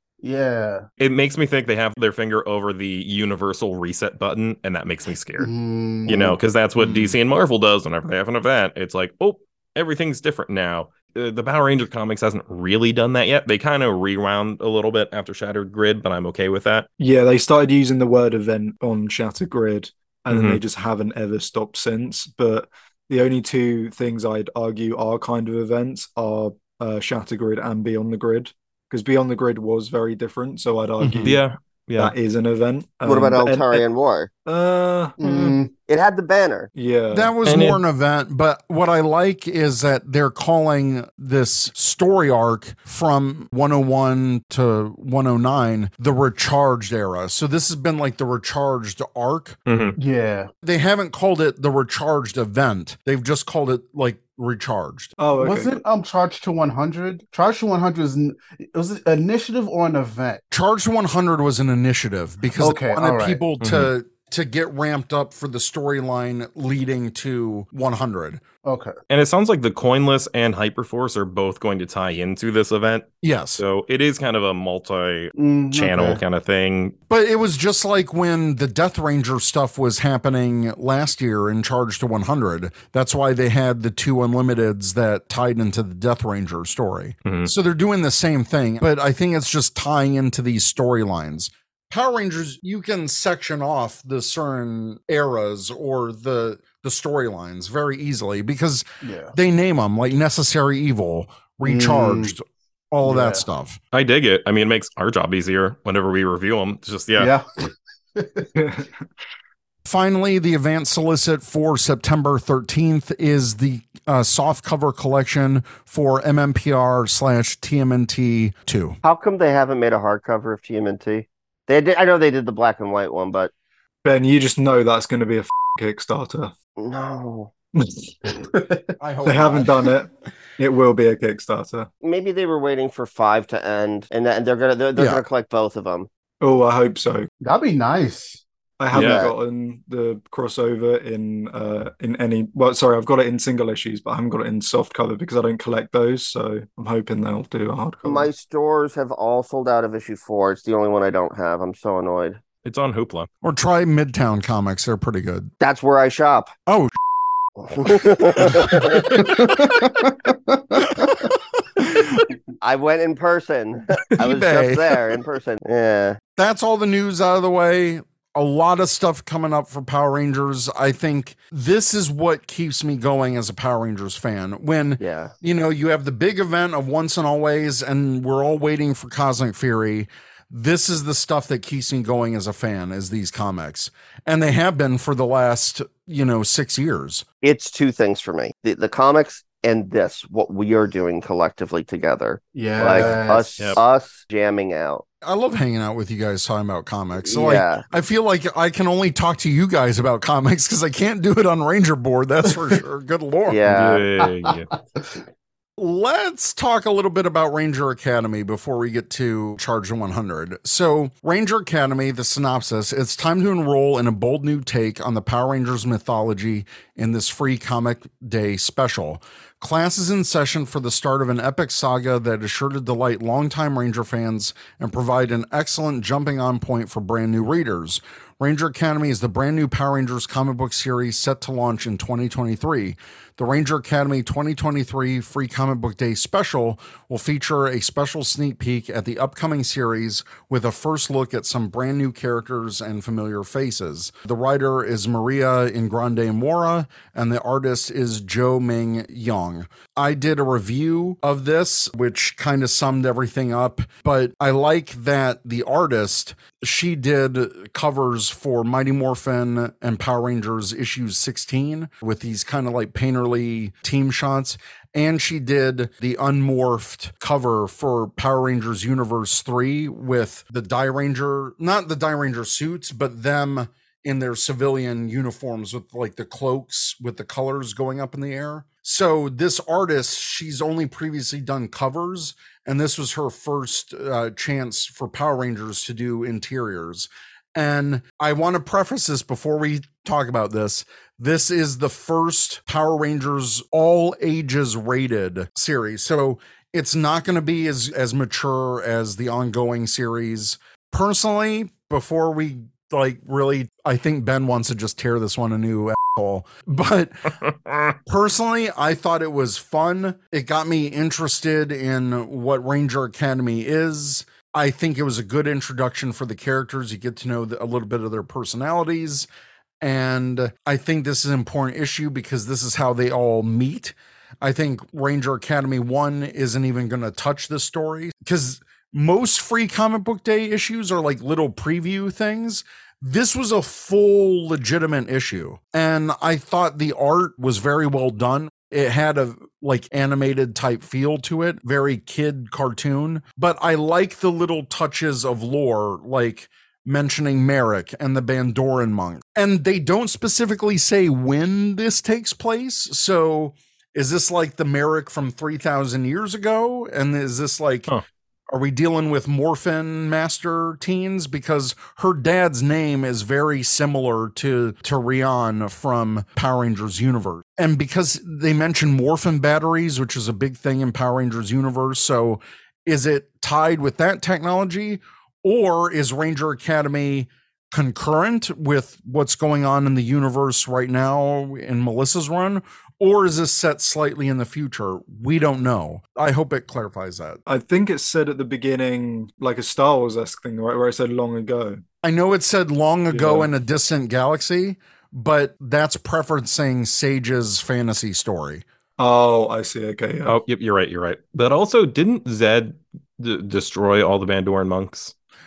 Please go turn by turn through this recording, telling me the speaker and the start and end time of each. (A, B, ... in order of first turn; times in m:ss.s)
0:00.2-0:00.8 A
0:01.0-0:05.5 B
0:05.4-0:06.4 A
0:06.1-0:16.9 B
0:06.8-0:07.2 C
0:17.0-0:31.4 D
0:20.3-0:20.6 B
0:31.2-0:32.1 B
0:32.0-0:33.8 D
0:33.0-0:34.3 E
0:34.4-0:35.2 D
0:35.2-0:35.7 A
0:35.8-0:36.7 E
0:36.7-0:37.3 D
0:37.1-0:49.6 C
0:37.4-0:37.8 B
0:49.7-0:50.0 B
0:50.0-0:50.5 A
0:50.6-0:55.1 C
0:55.2-0:55.7 D
0:55.4-1:00.4 A
1:00.5-1:08.4 C
1:02.6-1:03.4 A
1:03.6-1:03.9 B
1:08.6-1:08.9 A
1:09.1-1:16.9 B
1:13.2-1:13.6 C
1:15.4-1:16.2 A
1:17.1-1:43.8 C
1:27.2-1:27.5 B
1:39.0-1:39.3 A
1:41.6-1:42.3 A
1:43.0-1:43.4 A
1:43.9-1:47.3 B
1:47.2-1:48.5 A
1:48.6-1:49.0 D
1:49.8-1:59.0 C
1:59.0-2:03.5 E
2:04.0-2:06.5 D
2:06.8-2:07.5 E
2:07.7-2:08.1 D
2:08.2-2:09.0 A
2:09.0-2:09.7 C
2:09.2-2:11.9 D
2:12.0-2:16.1 E
2:15.0-2:15.2 C
2:16.4-2:17.3 D
2:17.4-2:18.4 A
2:18.8-2:28.3 D
2:18.9-2:19.2 B
2:18.9-2:19.3 E
2:28.0-2:32.4 E
2:32.6-2:33.3 B
2:33.4-2:35.5 C
2:35.6-2:36.5 E
2:36.7-2:37.0 C
2:37.7-2:39.2 E
2:37.9-2:39.5 C
2:38.3-2:41.2 A
2:40.8-2:41.1 C
2:41.8-2:42.2 C
2:42.6-2:46.2 E
2:44.2-2:45.0 C
2:46.4-3:07.2 C
2:55.0-2:55.3 E
3:07.4-3:15.0 E
3:12.5-3:13.8 A
3:15.2-3:23.9 C
3:17.2-3:17.8 E
3:23.5-3:24.0 E
3:23.7-3:24.7 B
3:24.4-3:25.2 A
3:25.8-5:07.4 C
5:08.0-5:19.3 C
5:19.8-5:57.9 C
5:58.5-6:27.4 C
6:27.4-6:31.8 D
6:32.0-6:38.6 C
6:33.1-6:33.5 D
6:39.0-6:40.4 D
6:40.2-6:45.1 B